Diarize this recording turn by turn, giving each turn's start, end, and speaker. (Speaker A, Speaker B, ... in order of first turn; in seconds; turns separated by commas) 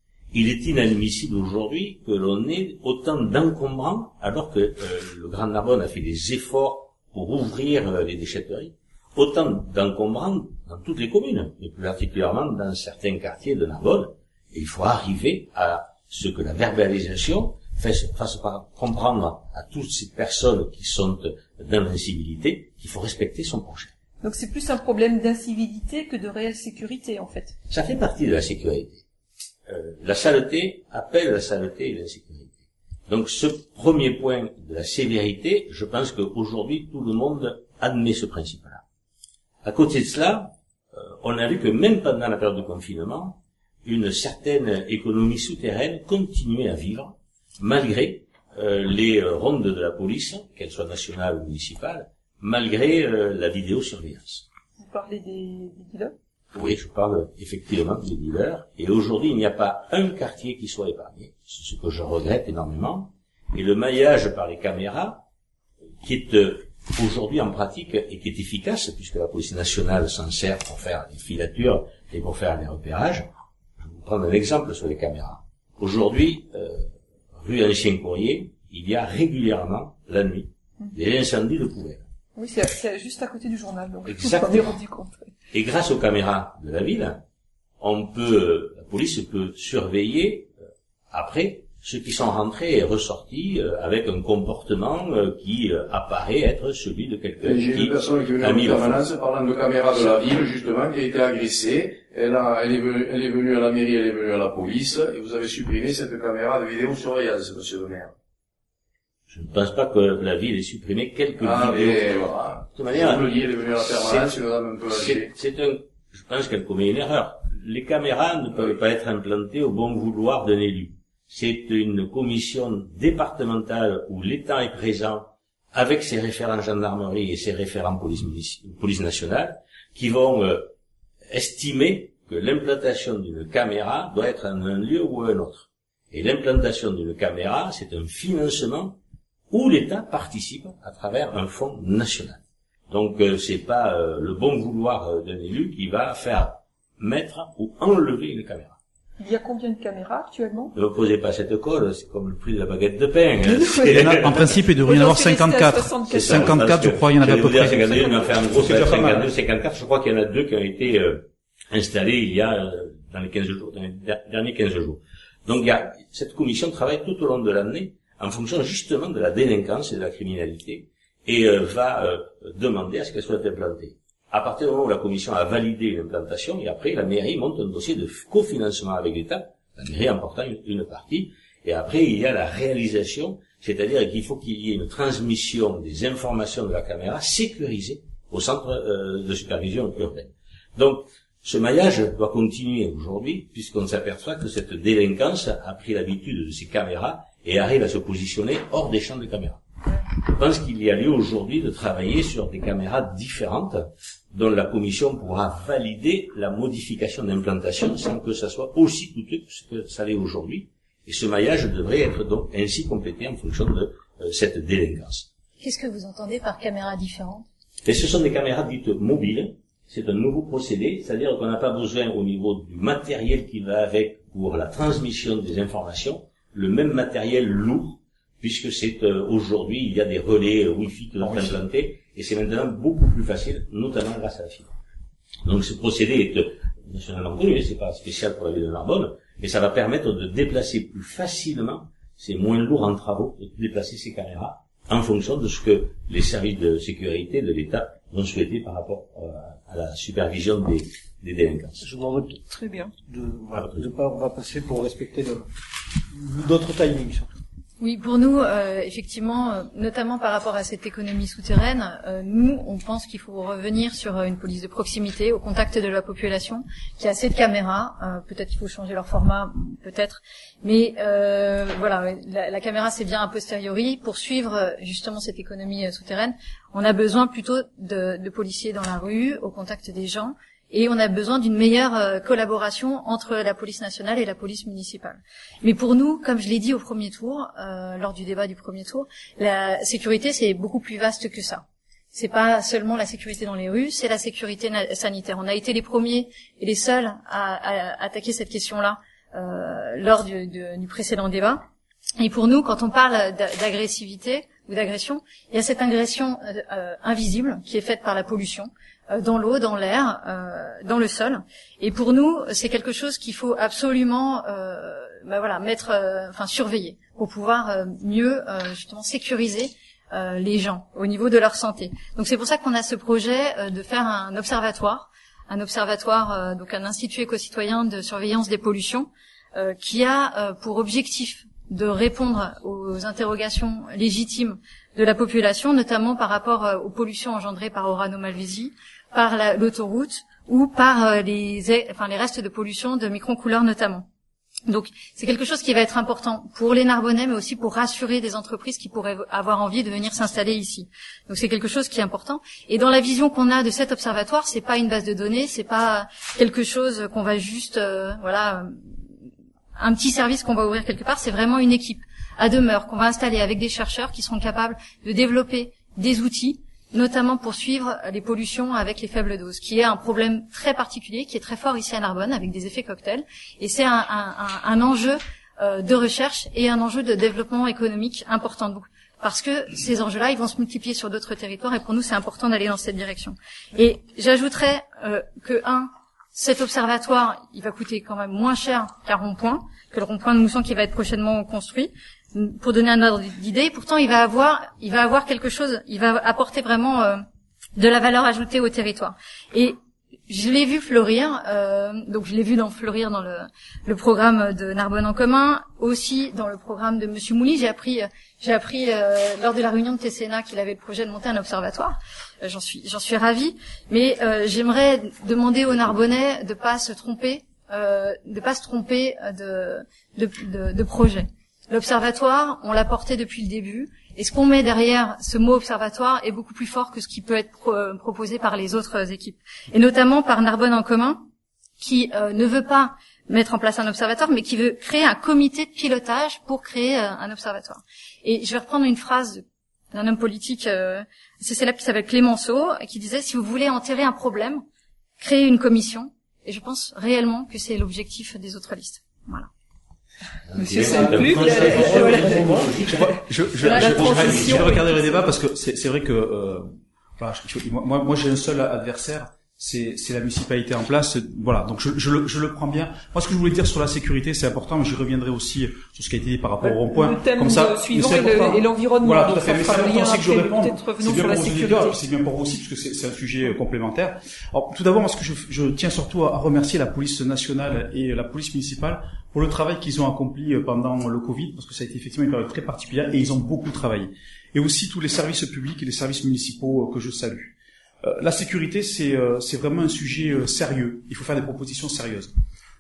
Speaker A: 0.3-23.9, Speaker B: 24.2-27.6, Speaker A: 27.7-29.0, Speaker A: 29.7-32.5, Speaker A: 33.1-38.8, Speaker A: 39.6-54.4, Speaker B: 54.8-56.1, Speaker A: 56.5-65.2, Speaker A: 66.0-73.3, Speaker A: 73.8-76.9, Speaker A: 77.4-82.0, Speaker B: 82.3-85.3, Speaker A: 84.0-84.8, Speaker A: 85.5-87.2, Speaker A: 87.8-90.5, Speaker A: 91.1-99.0, Speaker C: 97.4-108.1, Speaker A: 109.3-112.2, Speaker C: 111.4-115.3, Speaker A: 112.7-114.3, Speaker A: 114.9-130.7, Speaker A: 131.3-139.0, Speaker A: 139.5-148.8, Speaker B: 149.2-150.7, Speaker A: 150.7-154.6, Speaker D: 153.5-159.3, Speaker B: 153.5-154.0, Speaker B: 154.8-156.7, Speaker A: 156.1-199.6, Speaker A: 200.2-215.3, Speaker E: 215.6-217.4, Speaker A: 217.8-234.7, Speaker F: 231.2-231.6, Speaker A: 235.4-251.8, Speaker F: 251.8-252.4, Speaker B: 252.5-252.9, Speaker F: 253.0-255.4, Speaker A: 253.5-253.8, Speaker F: 256.1-257.4, Speaker E: 257.8-301.6, Speaker E: 302.2-344.1, Speaker E: 344.7-358.8, Speaker E: 359.8-397.2, Speaker E: 397.8-399.7, Speaker E: 400.3-431.2, Speaker E: 431.8-444.6, Speaker E: 445.2-449.5, Speaker A: 450.5-454.8, Speaker B: 450.5-452.8, Speaker F: 450.8-452.7, Speaker D: 452.9-492.3, Speaker B: 453.6-455.2, Speaker B: 466.6-472.0